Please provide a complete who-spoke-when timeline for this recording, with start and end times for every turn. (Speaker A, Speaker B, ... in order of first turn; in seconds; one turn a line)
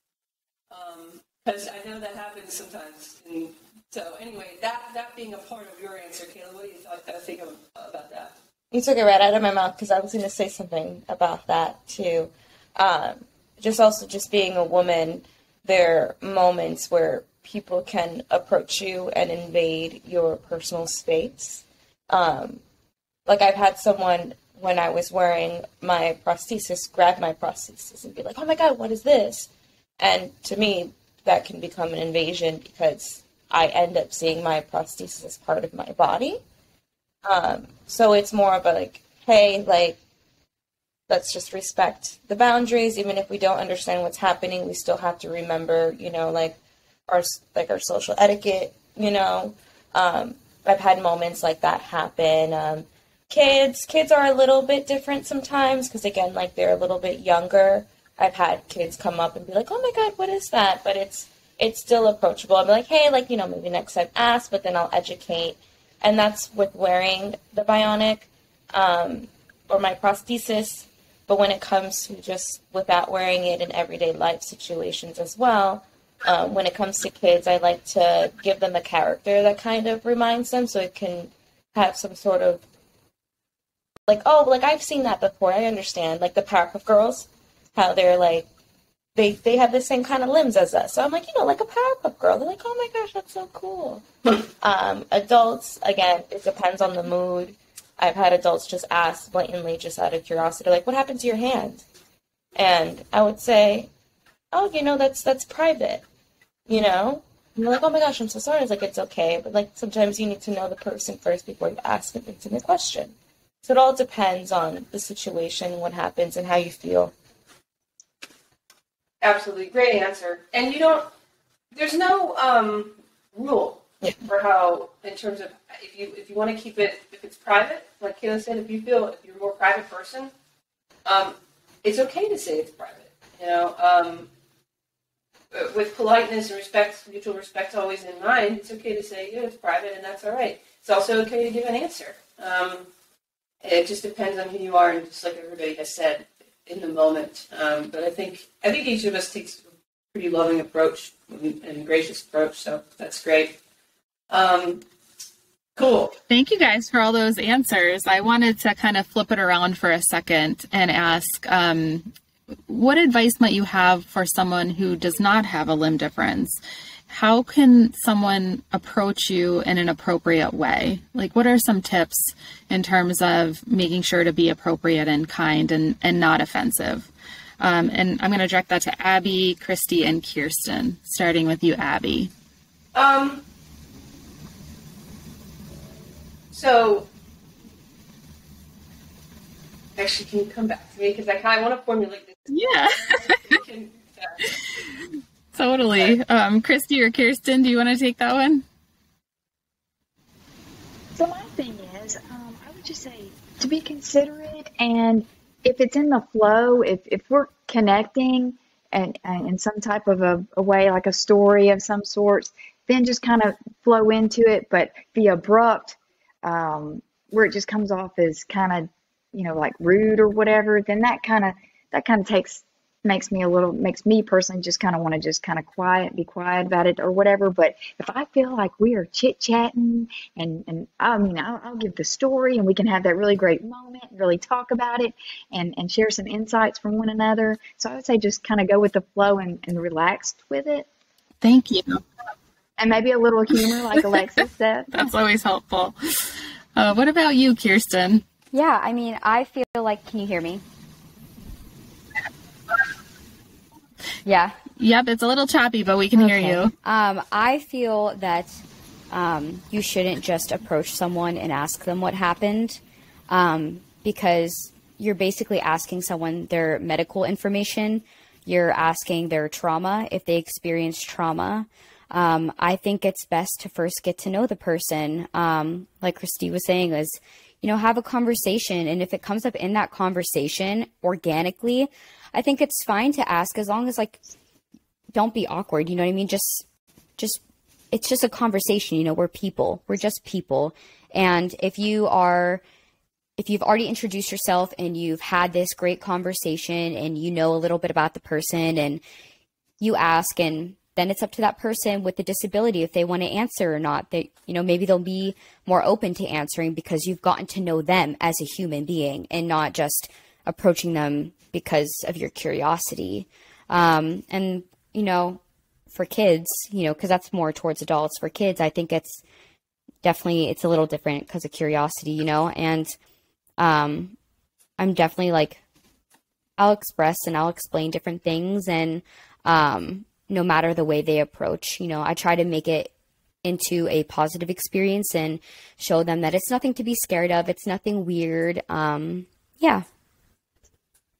Speaker A: 0.7-8.3
Speaker B: 8.7-22.6
Speaker B: 23.2-29.5
Speaker B: 30.0-36.4
Speaker B: 37.2-40.0
Speaker B: 41.1-82.6
Speaker B: 84.1-88.5
Speaker B: 89.2-101.8
Speaker B: 102.5-103.9
Speaker B: 104.5-106.0
Speaker B: 106.7-117.1
Speaker A: 119.2-121.1
Speaker A: 121.7-130.3
Speaker A: 131.0-134.3
Speaker A: 135.5-142.9
Speaker A: 143.6-153.6
Speaker A: 154.3-154.8
Speaker A: 155.8-156.2
Speaker C: 156.3-162.1
Speaker C: 162.7-177.1
Speaker C: 177.6-182.3
Speaker A: 182.9-183.4
Speaker A: 186.5-187.1
Speaker A: 189.9-194.4
Speaker C: 192.5-193.6
Speaker C: 195.5-198.6
Speaker D: 201.1-240.8
Speaker C: 241.4-242.0
Speaker D: 242.8-245.1
Speaker C: 244.9-248.2
Speaker E: 248.5-250.6
Speaker E: 254.2-254.6
Speaker C: 254.8-256.7
Speaker E: 256.1-284.2
Speaker E: 285.1-286.6
Speaker E: 287.2-292.6
Speaker E: 293.4-299.0
Speaker E: 299.8-319.2
Speaker E: 320.0-322.9
Speaker E: 323.6-324.1
Speaker E: 324.8-325.6
Speaker E: 326.6-332.9
Speaker E: 333.4-339.8